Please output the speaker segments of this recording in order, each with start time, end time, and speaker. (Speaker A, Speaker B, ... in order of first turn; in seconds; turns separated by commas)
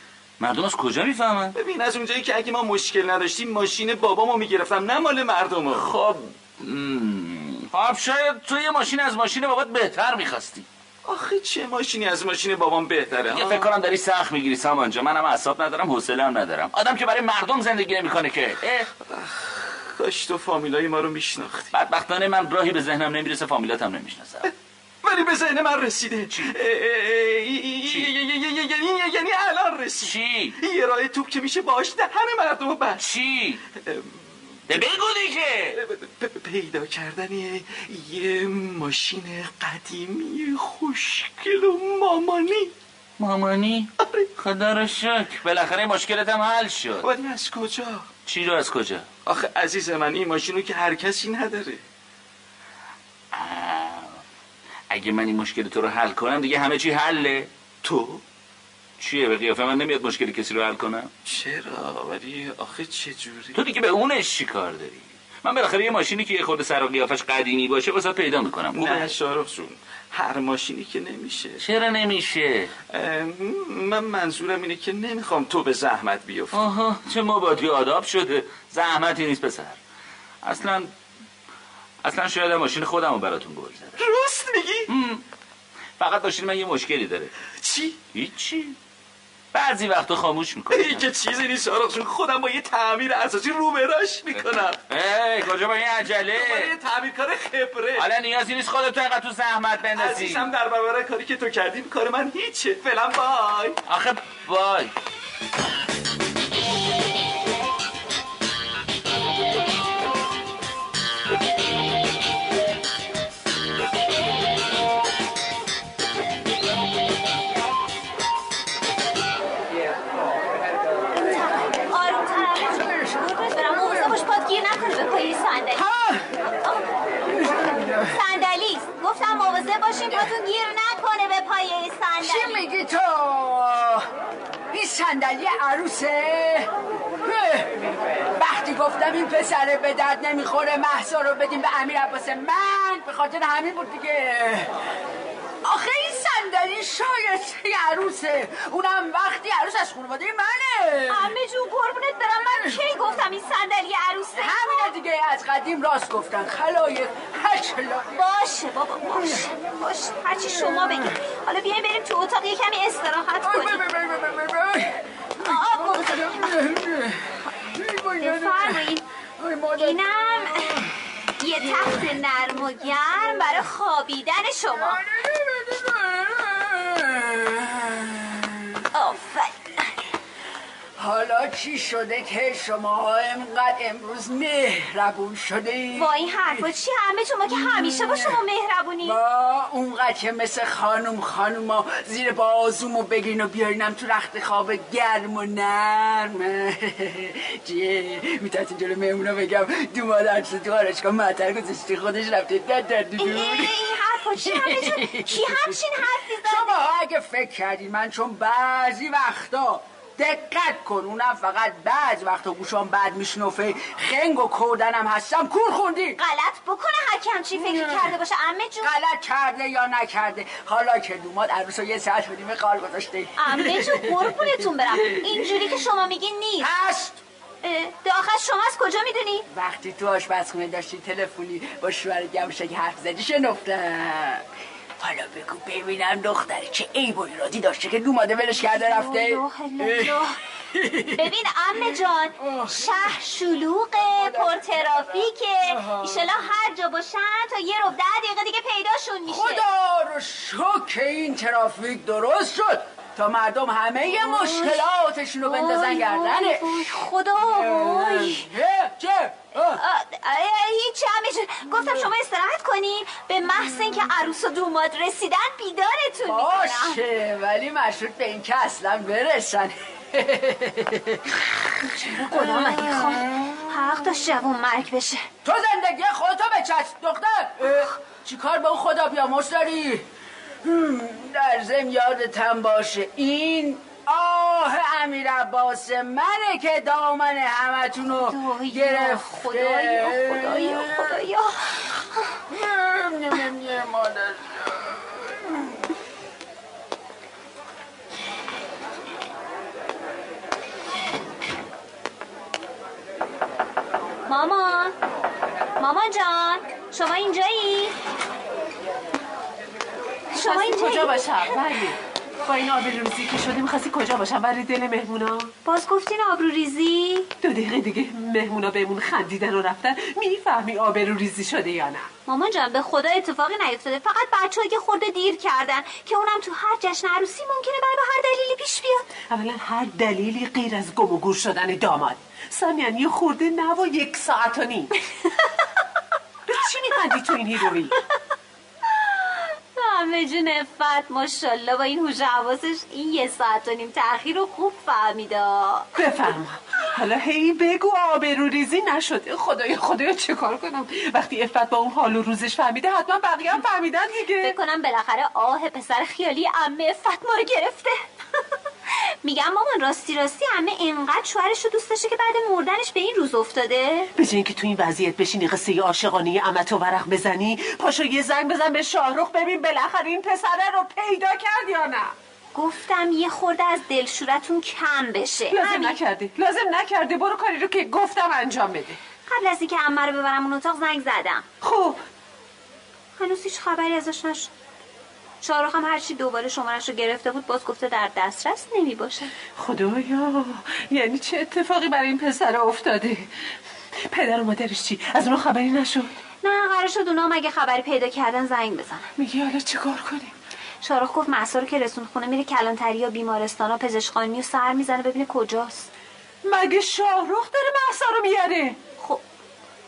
Speaker A: 0.4-1.6, Speaker B: 1.6-5.9, Speaker A: 5.7-10.7, Speaker B: 11.1-13.7, Speaker A: 13.3-18.9, Speaker B: 19.0-21.7, Speaker A: 21.7-24.5, Speaker B: 25.0-33.0, Speaker A: 30.0-30.6, Speaker A: 33.0-33.6, Speaker B: 33.8-34.2, Speaker A: 34.7-35.8, Speaker B: 35.7-42.7, Speaker A: 43.2-47.1, Speaker B: 44.0-44.3, Speaker B: 47.0-48.1, Speaker A: 48.3-49.1, Speaker B: 49.3-51.8, Speaker A: 53.3-54.2, Speaker A: 54.9-57.5, Speaker B: 57.8-58.2, Speaker A: 59.0-61.1, Speaker B: 61.3-63.6, Speaker A: 63.5-69.1, Speaker B: 68.7-71.6, Speaker A: 71.6-72.7, Speaker B: 72.9-76.6, Speaker A: 76.5-79.8, Speaker A: 80.4-80.9, Speaker A: 82.0-84.0, Speaker B: 84.0-84.9, Speaker A: 84.9-85.2, Speaker A: 86.0-87.3, Speaker B: 87.6-88.0, Speaker A: 88.1-88.8, Speaker A: 89.5-91.1, Speaker B: 90.7-94.8, Speaker A: 94.4-96.7, Speaker B: 96.3-98.1, Speaker A: 98.0-100.5, Speaker B: 100.0-103.8, Speaker A: 103.9-104.9, Speaker C: 121.1-125.9, Speaker D: 122.6-124.1, Speaker D: 125.8-126.2, Speaker D: 127.3-128.1, Speaker C: 128.1-132.7, Speaker D: 132.2-134.1, Speaker D: 134.7-136.7, Speaker D: 137.2-137.7, Speaker D: 138.4-144.7, Speaker D: 145.6-151.3, Speaker C: 151.1-154.9, Speaker D: 154.4-158.2, Speaker C: 158.1-163.8, Speaker D: 159.1-159.5, Speaker D: 160.5-161.1, Speaker D: 163.4-171.0, Speaker C: 165.4-166.6, Speaker C: 168.2-169.1, Speaker C: 169.8-170.9, Speaker C: 171.4-175.0, Speaker D: 171.5-173.7, Speaker D: 174.8-178.8, Speaker C: 178.9-179.9, Speaker D: 181.0-186.7, Speaker C: 185.9-189.2, Speaker D: 187.5-188.4, Speaker D: 189.0-205.8, Speaker C: 203.2-206.9, Speaker D: 206.4-216.2, Speaker C: 216.2-218.9, Speaker D: 217.6-218.2, Speaker D: 218.8-225.8, Speaker C: 223.4-226.7, Speaker D: 226.6-227.2, Speaker C: 227.6-229.5, Speaker D: 229.5-234.4, Speaker D: 235.0-241.3, Speaker C: 238.6-240.4, Speaker C: 241.2-249.6, Speaker D: 241.9-243.2, Speaker D: 244.0-245.1, Speaker D: 245.7-246.3, Speaker D: 249.3-259.8, Speaker C: 254.1-254.9, Speaker C: 255.4-258.5, Speaker C: 259.6-267.0, Speaker D: 266.2-273.7, Speaker C: 272.0-275.2, Speaker D: 275.4-280.1, Speaker D: 280.6-291.2, Speaker C: 288.1-291.6, Speaker D: 292.5-295.8, Speaker C: 304.3-304.9, Speaker C: 305.8-307.9, Speaker C: 310.3-311.5, Speaker E: 310.3-315.5, Speaker C: 315.6-317.3, Speaker E: 317.4-322.1, Speaker C: 322.3-329.1, Speaker E: 329.3-334.9, Speaker E: 336.5-338.0, Speaker C: 339.0-345.9, Speaker E: 346.0-354.6, Speaker C: 354.4-358.0, Speaker C: 359.2-364.1, Speaker E: 364.2-372.1, Speaker C: 372.6-376.0, Speaker E: 375.5-379.0, Speaker C: 379.3-381.5, Speaker E: 381.6-382.0, Speaker C: 383.2-384.5, Speaker C: 385.4-389.4, Speaker E: 389.6-393.3, Speaker E: 394.1-396.1, Speaker C: 396.4-399.1, Speaker E: 399.2-400.3, Speaker C: 400.8-405.9, Speaker E: 406.4-408.8